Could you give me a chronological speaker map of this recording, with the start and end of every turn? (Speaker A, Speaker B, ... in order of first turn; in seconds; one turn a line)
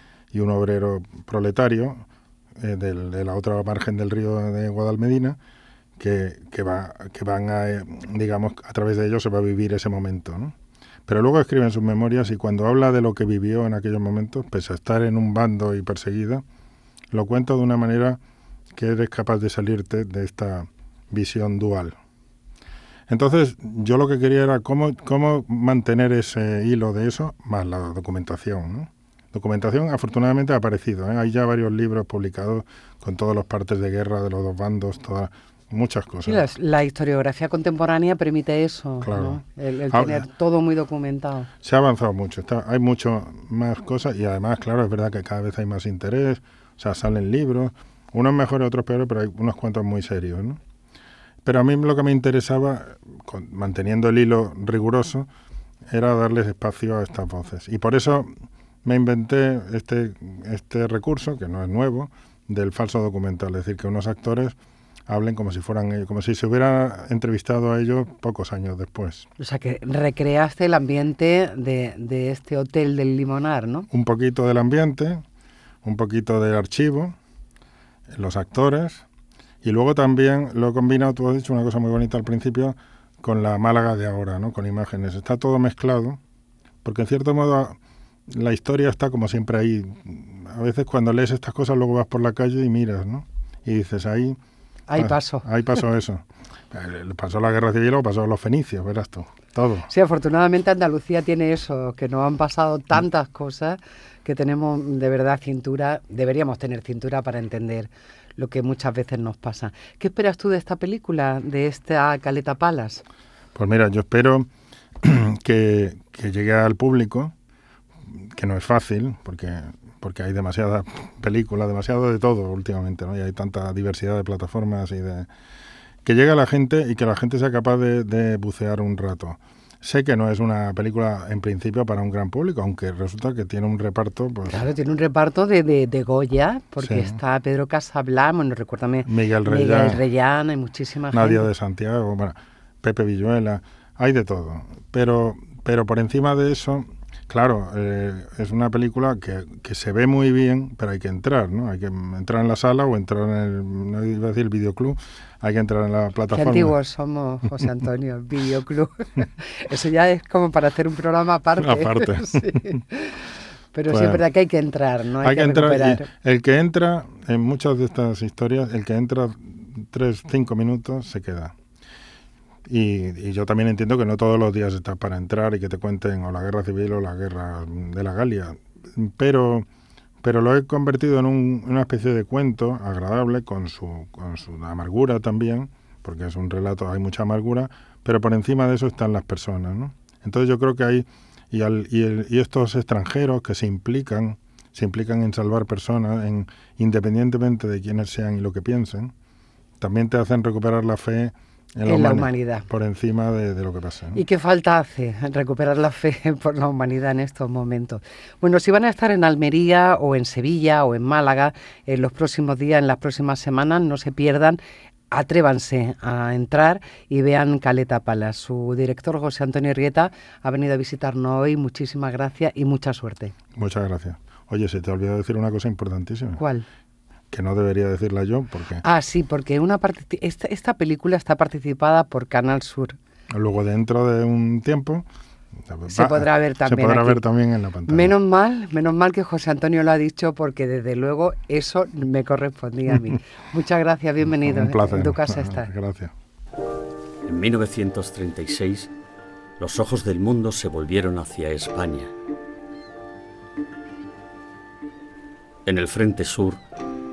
Speaker A: 0.3-2.0
Speaker A: 2.6-5.4
Speaker A: 6.0-10.5
Speaker A: 11.1-16.4
Speaker A: 17.1-18.2
Speaker A: 18.7-21.9
Speaker A: 23.1-36.4
Speaker B: 36.2-41.5
Speaker A: 39.0-40.2
Speaker A: 41.6-50.6
Speaker A: 51.4-55.3
Speaker A: 55.9-58.3
Speaker A: 58.8-64.5
Speaker A: 65.1-69.3
Speaker B: 69.4-73.9
Speaker A: 73.9-75.2
Speaker A: 75.8-77.2
Speaker A: 78.1-79.0
Speaker A: 79.6-86.2
Speaker A: 86.8-87.8
Speaker A: 88.3-94.4
Speaker B: 94.9-95.5
Speaker A: 94.9-99.9
Speaker B: 99.9-113.0
Speaker A: 113.5-114.5
Speaker A: 115.0-117.3
Speaker A: 118.1-125.3
Speaker A: 126.0-134.6
Speaker B: 134.5-141.4
Speaker A: 136.8-137.2
Speaker A: 139.0-140.0
Speaker A: 141.1-156.8
Speaker B: 156.3-163.2
Speaker A: 161.6-162.8
Speaker B: 163.7-166.1
Speaker A: 163.9-164.2
Speaker A: 165.2-171.5
Speaker A: 172.7-179.7
Speaker A: 180.2-199.1
Speaker A: 199.8-204.2
Speaker B: 201.8-202.7
Speaker B: 204.1-214.6
Speaker B: 215.1-223.3
Speaker A: 223.5-226.4
Speaker B: 226.4-226.7
Speaker A: 227.3-228.8
Speaker B: 228.8-232.9
Speaker A: 233.3-235.1
Speaker A: 235.7-238.1
Speaker B: 235.9-237.2
Speaker B: 237.9-245.7
Speaker A: 244.3-246.1
Speaker C: 247.2-248.9
Speaker C: 249.6-252.1
Speaker C: 255.7-256.6